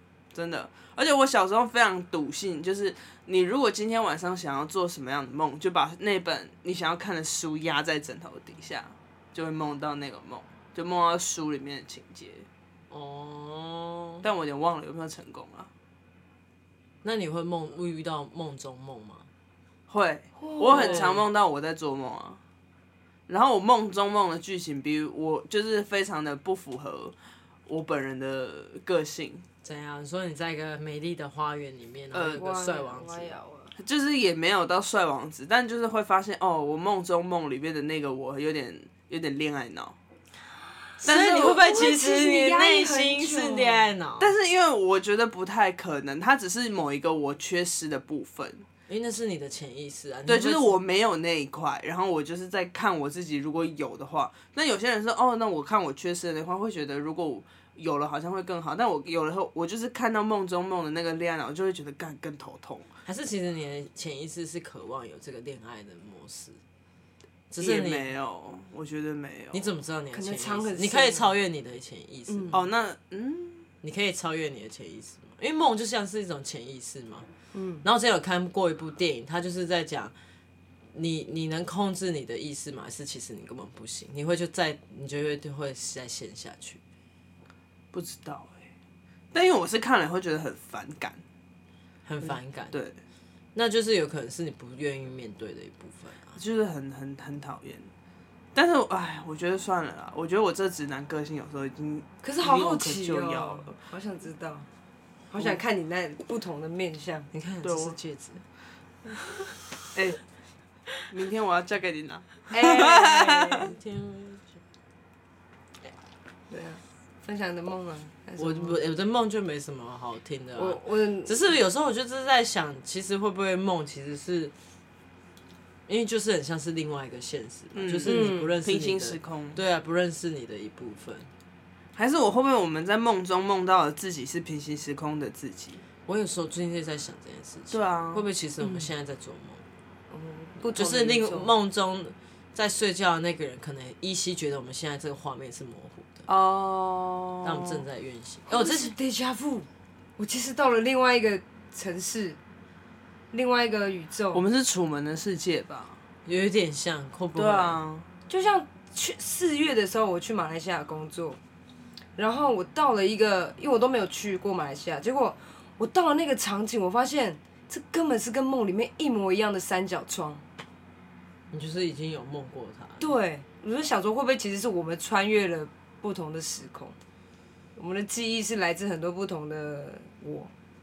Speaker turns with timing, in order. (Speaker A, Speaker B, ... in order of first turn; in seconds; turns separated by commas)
Speaker A: 0.3-12.5, Speaker B: 12.9-14.3, Speaker A: 14.2-15.7, Speaker B: 17.0-19.3, Speaker A: 19.9-22.4, Speaker C: 20.4-21.1, Speaker B: 20.6-21.3, Speaker A: 23.3-27.1, Speaker A: 27.7-29.4, Speaker B: 29.6-33.3, Speaker A: 32.1-32.4, Speaker C: 32.4-33.7, Speaker A: 33.8-40.0, Speaker B: 41.0-44.3, Speaker C: 41.0-43.9, Speaker A: 41.0-41.6, Speaker A: 44.2-48.7, Speaker B: 48.9-50.8, Speaker A: 50.3-62.9, Speaker B: 63.1-66.6, Speaker B: 67.5-68.1, Speaker A: 67.6-69.7, Speaker B: 69.5-72.6, Speaker C: 70.1-71.3, Speaker C: 72.3-72.6, Speaker A: 72.5-73.7, Speaker B: 73.8-77.3, Speaker C: 77.5-77.9, Speaker B: 77.8-80.1, Speaker B: 80.9-86.8, Speaker A: 87.9-88.7, Speaker A: 89.3-91.2, Speaker B: 92.0-92.8, Speaker A: 92.3-93.0, Speaker B: 93.5-96.4, Speaker A: 96.3-97.9, Speaker A: 98.5-103.8, Speaker C: 102.2-104.7, Speaker C: 105.3-107.3, Speaker B: 107.3-108.4, Speaker A: 107.6-108.0, Speaker A: 109.9-110.2, Speaker A: 111.1-113.6, Speaker C: 112.5-113.5, Speaker B: 113.0-114.5, Speaker C: 116.5-118.8, Speaker B: 118.4-124.5, Speaker C: 120.6-121.5, Speaker B: 125.9-131.3, Speaker A: 127.7-129.6, Speaker C: 128.1-128.6, Speaker A: 131.9-135.8, Speaker B: 136.1-139.6, Speaker A: 137.7-138.3, Speaker C: 138.6-138.9, Speaker C: 140.1-141.5, Speaker B: 140.6-146.3, Speaker A: 146.3-147.8, Speaker B: 147.4-148.9, Speaker C: 148.5-152.4, Speaker C: 153.3-154.4, Speaker A: 154.3-156.0, Speaker B: 156.3-157.8, Speaker A: 157.3-158.1, Speaker C: 158.3-161.4, Speaker C: 162.2-170.4, Speaker B: 171.5-173.1, Speaker C: 173.0-177.0, Speaker C: 177.8-180.5